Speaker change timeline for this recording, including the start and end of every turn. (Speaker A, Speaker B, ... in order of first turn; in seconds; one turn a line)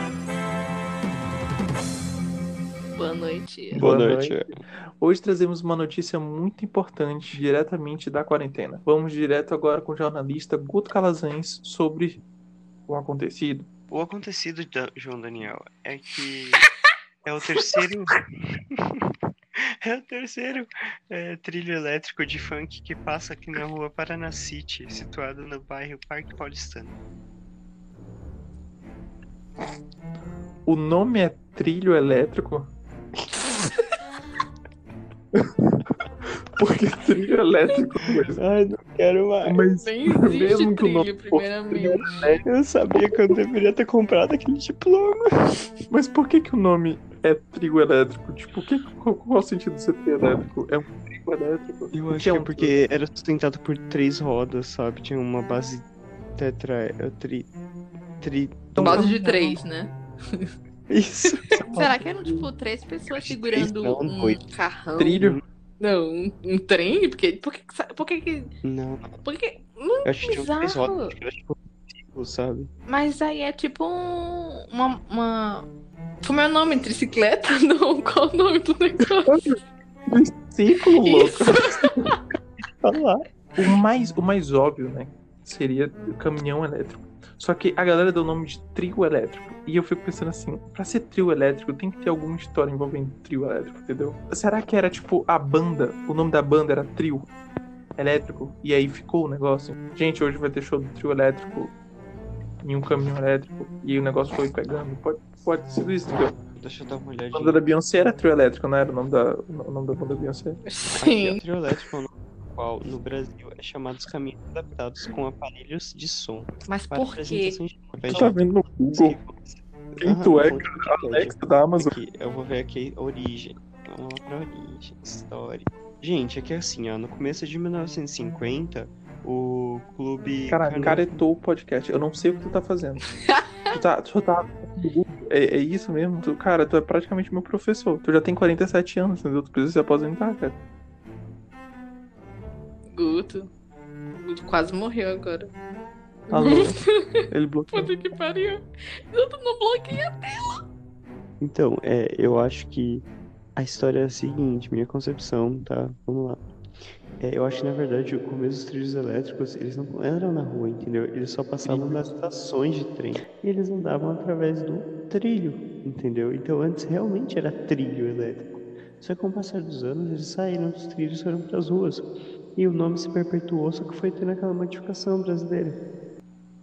Speaker A: 2.9-3.8
Speaker B: 3.7-4.5
Speaker C: 3.8-4.5
Speaker B: 5.0-12.2
Speaker B: 12.9-13.7
Speaker C: 13.9-16.6
Speaker C: 17.2-18.2
Speaker C: 18.8-19.0
Speaker C: 19.8-27.0
Speaker B: 30.7-32.7
Speaker B: 36.5-38.4
Speaker C: 38.3-39.6
Speaker B: 39.4-42.5
Speaker A: 39.8-42.4
Speaker C: 42.5-45.6
Speaker B: 45.9-52.8
Speaker C: 51.9-57.5
Speaker C: 58.2-59.1
Speaker B: 58.7-59.6
Speaker A: 58.8-60.5
Speaker C: 60.9-61.7
Speaker B: 61.5-62.2
Speaker A: 61.7-65.2
Speaker C: 63.1-64.4
Speaker B: 65.0-65.4
Speaker A: 65.8-68.5
Speaker C: 68.6-69.2
Speaker A: 69.2-71.1
Speaker C: 70.0-72.7
Speaker A: 72.9-75.7
Speaker A: 76.2-79.4
Speaker B: 79.1-79.6
Speaker B: 80.1-82.2
Speaker A: 81.0-81.9
Speaker B: 82.8-97.3
Speaker B: 98.0-101.7
Speaker B: 102.6-106.4
Speaker C: 106.5-108.3
Speaker B: 107.3-110.6
Speaker A: 110.7-111.4
Speaker C: 111.0-118.4
Speaker A: 116.7-117.6
Speaker B: 118.1-119.2
Speaker C: 118.9-131.2
Speaker B: 120.0-122.0
Speaker B: 130.5-133.1
Speaker B: 133.7-140.5
Speaker A: 142.9-143.5
Speaker A: 144.2-145.5
Speaker A: 146.3-147.0
Speaker B: 146.3-147.9
Speaker A: 147.7-150.6
Speaker C: 151.4-156.4
Speaker C: 157.2-175.8
Speaker B: 161.6-162.1